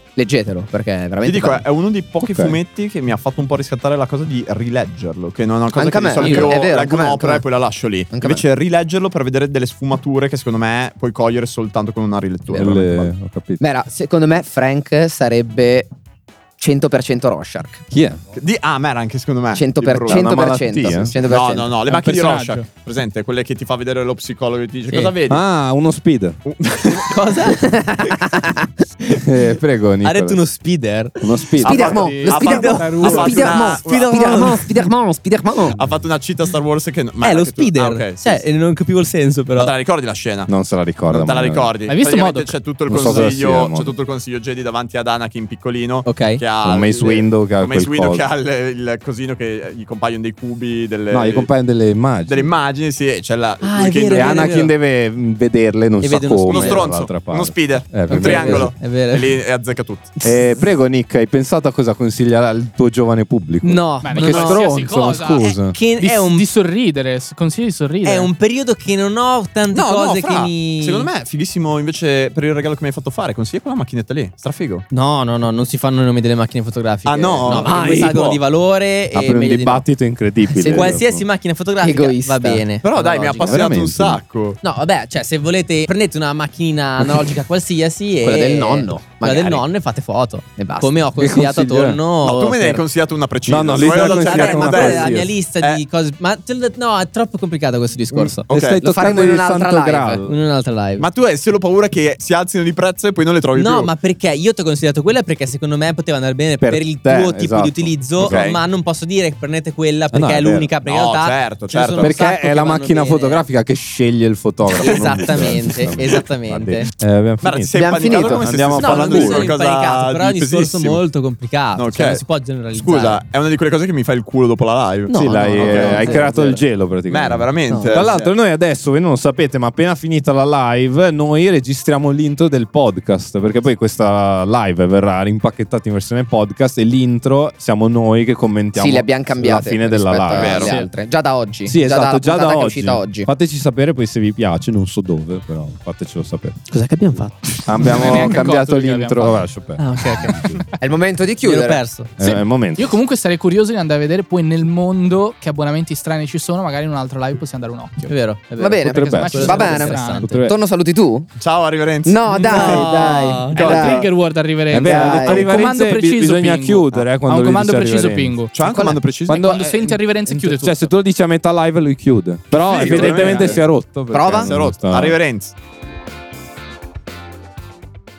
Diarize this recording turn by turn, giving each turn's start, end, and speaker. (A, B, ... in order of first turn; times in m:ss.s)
0:00.2-0:01.6 A
0:01.2-0:13.1 B
0:02.2-0:02.6 C
0:05.7-0:07.4 A
0:06.2-0:06.6 C
0:08.1-0:08.4 A
0:12.5-0:13.6 C
0:13.6-0:15.9 A
0:16.6-0:17.8 A
0:17.9-0:18.2 C
0:18.3-0:25.4 B
0:19.5-0:21.7 A
0:20.1-0:21.1 C
0:21.9-0:22.6 D
0:24.9-0:25.1 E
0:25.3-0:26.4 C
0:26.4-0:27.2 B
0:26.9-0:27.6 E
0:27.6-0:28.7 A
0:29.1-0:30.4 C
0:30.0-0:31.2 E
0:31.2-0:32.0 C
0:31.6-0:34.4 B
0:31.6-0:35.8 A
0:31.9-0:33.4 D
0:32.4-0:34.8 E
0:35.8-0:38.4 B
0:37.2-0:39.7 E
0:39.5-0:40.5 B
0:40.5-0:41.7 C
0:41.1-0:51.5 B
0:41.9-0:43.3 D
0:42.9-0:43.9 C
0:46.0-0:46.4 E
0:46.6-0:48.2 C
0:51.1-0:52.5 C
0:52.2-0:54.6 B
0:53.6-0:54.7 E
0:54.1-0:58.7 C
0:56.0-0:57.0 E
0:56.5-1:00.1 B
0:58.1-0:59.3 E
1:00.2-1:05.8 C
1:03.6-1:04.6 E
1:04.0-1:08.3 D
1:04.2-1:04.5 B
1:05.7-1:06.4 E
1:08.0-1:11.1 E
1:09.7-1:14.8 B
1:14.9-1:19.8 E
1:17.0-1:18.4 B
1:17.5-1:18.2 A
1:19.1-1:21.2 C
1:20.6-1:21.0 A
1:20.6-1:23.7 E
1:21.8-1:22.6 A
1:22.8-1:24.6 B
1:23.4-1:24.2 C
1:24.6-1:32.8 E
1:28.2-1:29.7 A
1:30.6-1:31.0 A
1:31.2-1:32.0 C
1:32.2-1:35.8 B
1:33.5-1:35.3 C
1:33.8-1:38.4 E
1:38.1-1:38.8 B
1:38.5-1:40.3 C
1:38.8-1:40.2 A
1:40.2-1:41.1 E
1:41.0-1:43.9 B
1:43.5-1:53.4 E
1:46.6-1:48.5 C
1:48.2-1:48.6 B
1:50.1-1:50.7 C
1:50.8-1:52.3 B
1:52.0-1:59.5 C
1:54.8-1:56.9 E
1:54.8-1:55.3 B
1:57.4-2:01.0 B
1:57.8-1:58.6 A
1:58.7-2:03.2 E
2:01.8-2:06.3 B
2:05.1-2:06.6 E
2:05.1-2:20.8 C
2:07.1-2:08.3 B
2:07.7-2:08.0 E
2:18.8-2:23.3 A
2:20.3-2:20.8 B
2:20.6-2:20.9 D
2:21.6-2:26.6 C
2:26.8-2:27.3 E
2:27.6-2:30.6 C
2:27.8-2:29.4 D
2:29.8-2:30.5 E
2:30.8-2:31.8 A
2:31.4-2:32.1 E
2:32.2-2:33.0 C
2:32.8-2:38.2 D
2:38.1-2:40.4 E
2:38.6-2:41.3 A
2:38.8-2:40.6 C
2:39.1-2:40.3 D
2:41.4-2:44.1 B
2:42.0-2:44.1 A
2:42.4-2:43.9 E
2:43.5-2:50.9 D
2:44.7-2:55.2 C
2:44.8-2:45.5 A
2:48.5-2:49.4 B
2:52.5-2:53.7 B
2:52.8-2:53.3 D
2:54.1-2:54.5 A
2:54.2-2:55.5 B